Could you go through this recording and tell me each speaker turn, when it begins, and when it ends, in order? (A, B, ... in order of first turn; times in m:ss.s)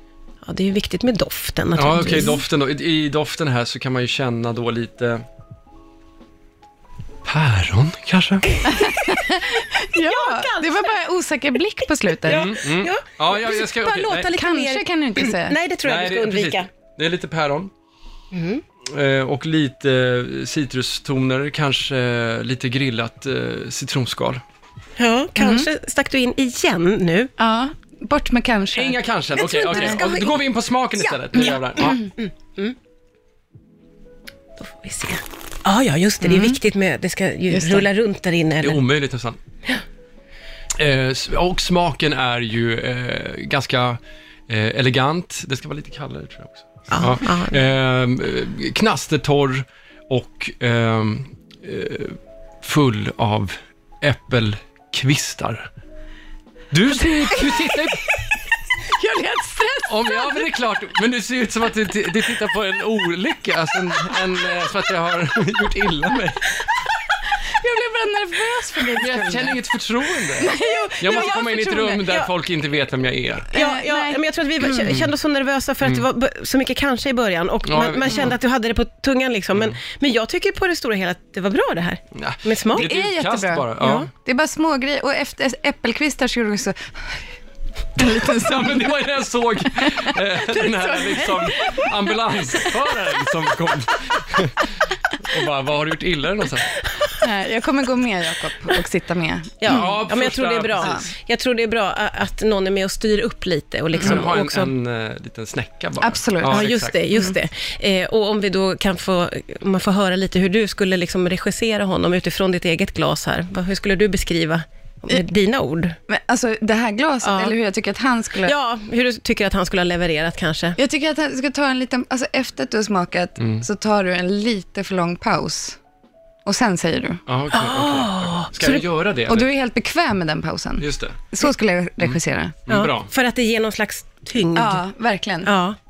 0:00.4-0:02.4 A
0:01.8-0:05.2 B
0:07.2-0:08.5 B
0:08.6-0:12.6 C
0:10.0-0:10.9 A
0:12.2-0:16.7 A
0:12.3-0:14.3 B
0:14.3-0:15.6 C
0:15.8-0:17.7 B
0:18.3-0:18.6 A
0:18.8-0:24.4 B
0:25.0-0:27.3 A
0:25.4-0:25.7 C
0:27.4-0:29.0 C
0:28.7-0:32.0 B
0:29.4-0:30.3 A
0:29.7-0:30.1 C
0:31.0-0:32.8 A
0:31.8-0:32.1 C
0:34.6-0:38.8 A
0:36.2-0:36.6 C
0:37.5-0:37.9 C
0:38.6-0:39.4 B
0:40.7-0:55.7 B
0:46.9-0:47.6 A
0:56.7-0:58.0 B
0:57.2-0:57.8 C
0:58.9-1:00.4 C
0:59.9-1:06.5 B
1:07.5-1:09.6 C
1:08.9-1:13.5 B
1:10.3-1:12.1 C
1:12.0-1:12.3 A
1:13.5-1:14.8 C
1:13.5-1:22.9 A
1:17.7-1:18.4 B
1:22.1-1:24.1 B
1:22.7-1:27.2 C
1:23.8-1:24.1 A
1:28.0-1:28.9 C
1:28.0-1:36.8 B
1:29.8-1:31.9 C
1:37.2-1:39.8 C
1:39.6-1:44.7 A
1:39.7-1:41.0 B
1:40.8-1:41.0 C
1:44.0-1:47.0 B
1:44.0-1:44.3 C
1:46.0-1:47.4 C
1:46.5-1:56.0 A
1:56.1-1:58.5 C
1:57.2-1:57.5 A
1:58.4-2:00.8 A
2:00.8-2:05.8 C
2:03.4-2:03.6 B
2:06.4-2:07.2 C
2:07.3-2:09.5 B
2:07.5-2:08.8 A
2:09.3-2:12.6 C
2:10.8-2:11.2 B
2:12.0-2:13.1 B
2:12.7-2:14.8 A
2:14.5-2:15.6 C
2:15.4-2:15.8 A